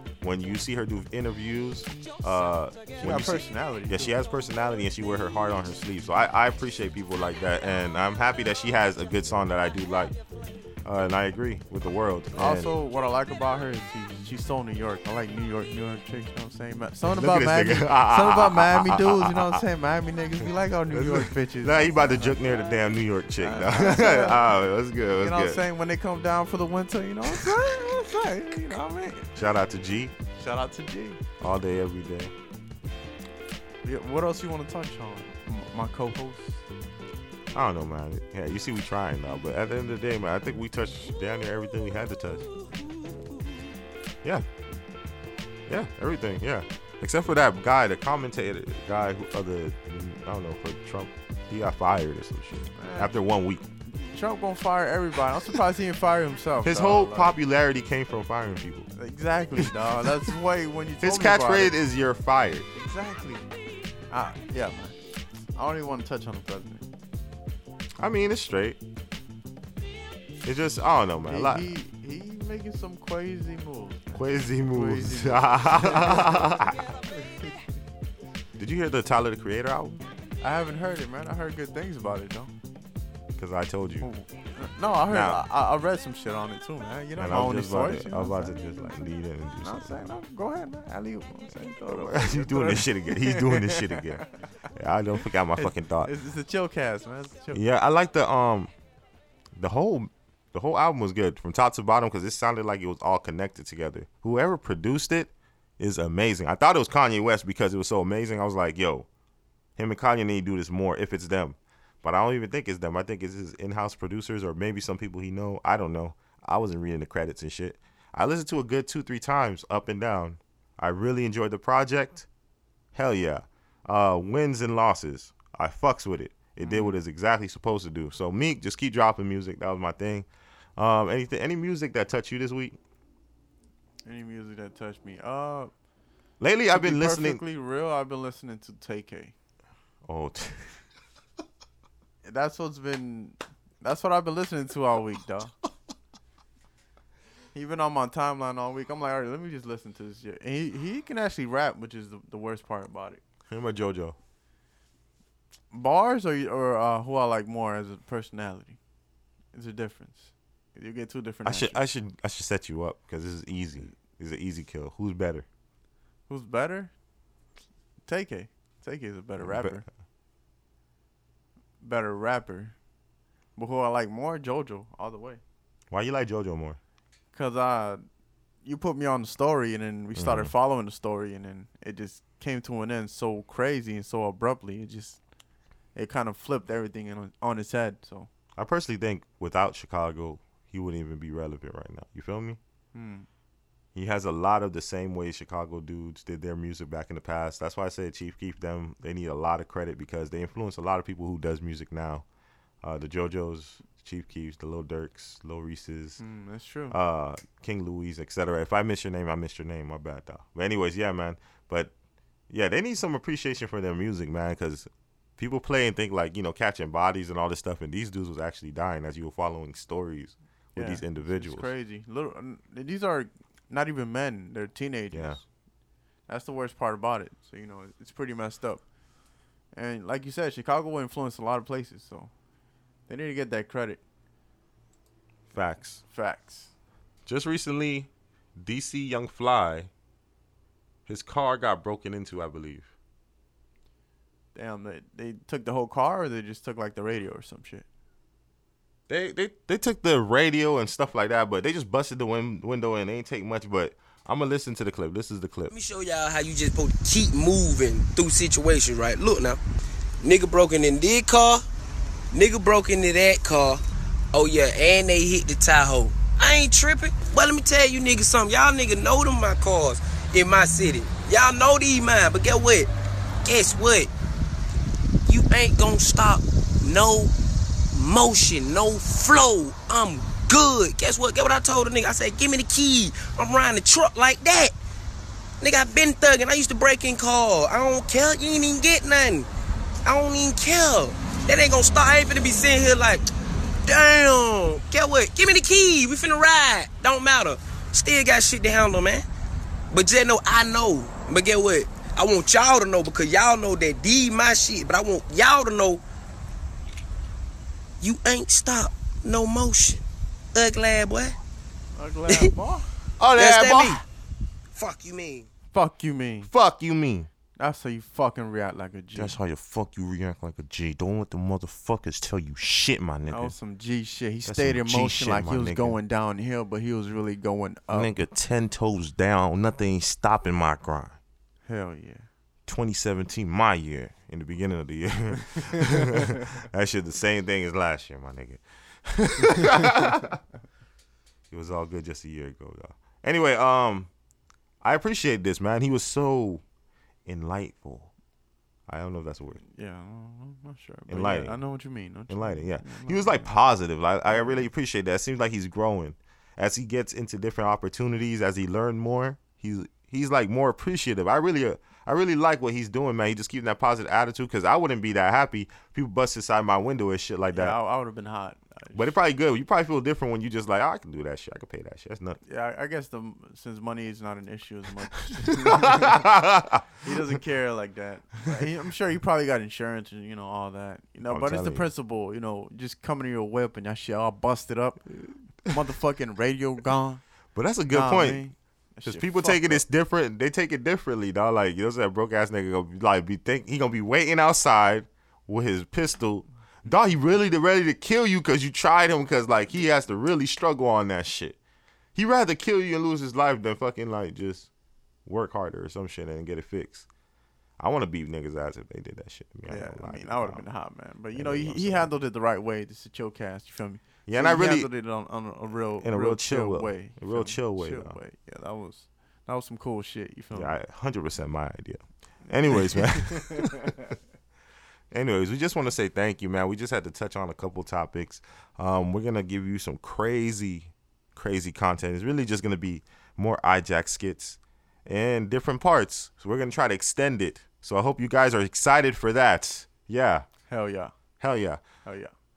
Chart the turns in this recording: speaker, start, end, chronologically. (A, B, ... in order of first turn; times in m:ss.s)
0:00.2-0:10.2 A
0:03.0-0:04.1 B
0:10.8-0:12.7 A
0:12.4-0:22.6 B
0:17.1-0:19.6 A
0:20.9-0:25.6 A
0:23.4-0:24.4 B
0:25.2-0:29.4 B
0:29.4-0:30.2 A
0:30.3-0:31.2 B
0:31.4-0:32.3 A
0:33.8-0:36.6 B
0:37.5-0:42.5 A
0:45.7-0:53.7 A
0:52.8-0:53.2 B
0:54.0-0:57.4 B
0:56.6-0:58.9 A
0:59.0-1:01.8 B
1:01.0-1:02.7 A
1:02.7-1:03.5 B
1:04.1-1:05.0 B
1:05.6-1:06.9 B
1:08.0-1:08.8 A
1:10.4-1:11.7 A
1:11.3-1:17.6 B
1:14.1-1:16.8 A
1:18.6-1:20.0 A
1:20.4-1:22.5 B
1:23.4-1:24.1 A
1:24.0-1:29.0 B
1:25.1-1:25.4 A
1:27.2-1:30.0 A
1:29.6-1:34.5 B
1:31.9-1:36.1 A
1:35.6-1:37.6 B
1:37.5-1:38.7 A
1:39.6-1:49.1 A
1:49.8-2:02.3 A
2:02.9-2:12.8 A
2:06.6-2:07.0 B
2:14.0-2:15.7 B
2:16.4-2:17.4 A
2:16.7-2:19.4 B
2:20.1-2:20.7 A
2:22.2-2:25.5 B
2:27.5-2:33.2 B
2:33.5-2:34.2 A
2:35.7-2:38.8 B
2:39.5-2:41.8 B
2:41.4-2:45.5 A
2:46.3-2:46.9 B
2:48.1-2:49.8 B
2:49.4-2:49.8 A
2:51.8-2:52.8 B
2:53.6-2:55.4 B
2:55.9-2:56.8 A
2:57.3-2:58.0 B
2:58.6-3:05.2 B
3:00.2-3:00.5 A
3:06.0-3:08.3 B
3:08.6-3:12.6 A
3:12.9-3:13.3 B
3:14.0-3:22.2 A
3:22.8-3:26.2 A
3:26.2-3:27.0 B
3:26.9-3:31.9 A
3:32.5-3:41.7 A
3:40.8-3:45.4 B
3:45.1-3:45.4 A
3:46.3-3:48.8 B
3:49.7-3:52.3 B
3:53.1-3:54.0 B
3:55.5-3:56.0 A
3:56.0-3:56.7 B
3:57.3-3:59.9 A
4:01.1-4:02.9 A
4:04.6-4:07.9 B
4:09.1-4:15.7 A
4:15.7-4:19.6 C
4:20.2-4:21.6 C
4:22.3-4:23.8 C
4:24.3-4:32.9 C
4:33.4-4:34.1 C
4:35.2-4:37.3 C
4:37.9-4:44.7 C
4:45.6-4:49.5 C
4:50.1-4:53.3 C
4:53.8-4:59.3 C
4:59.9-5:06.0 C
5:08.0-5:11.4 C
5:11.9-5:12.9 B
5:13.2-5:14.0 A
5:13.4-5:14.0 C
5:14.7-5:15.5 C
5:15.7-5:16.5 B
5:16.5-5:17.3 A
5:17.6-5:19.4 B
5:19.2-5:23.6 A
5:23.3-5:28.1 B
5:24.4-5:26.0 A
5:27.9-5:31.2 A
5:31.6-5:32.3 B
5:32.7-5:40.4 A
5:41.5-5:44.1 A
5:44.8-5:46.6 A
5:47.3-5:48.1 A
5:48.9-5:49.6 A
5:49.6-5:53.5 B
5:51.1-5:51.6 A
5:52.3-6:07.8 A
6:07.5-6:09.1 B
6:08.9-6:12.4 A
6:12.5-6:16.3 B
6:15.3-6:17.1 A
6:17.0-6:25.1 B
6:21.3-6:21.9 A
6:25.7-6:27.2 B
6:27.6-6:28.4 A
6:27.9-6:29.8 B
6:29.0-6:41.6 A
6:42.2-6:44.7 A
6:45.3-6:47.1 A
6:47.8-6:50.6 A
6:49.7-7:00.8 B
6:51.3-6:52.1 A
6:54.3-6:54.9 A
6:56.0-6:58.2 A
7:00.5-7:04.1 A
7:02.7-7:04.1 B
7:05.1-7:20.5 A
7:20.7-7:21.1 B
7:21.4-7:21.8 A
7:22.0-7:22.3 B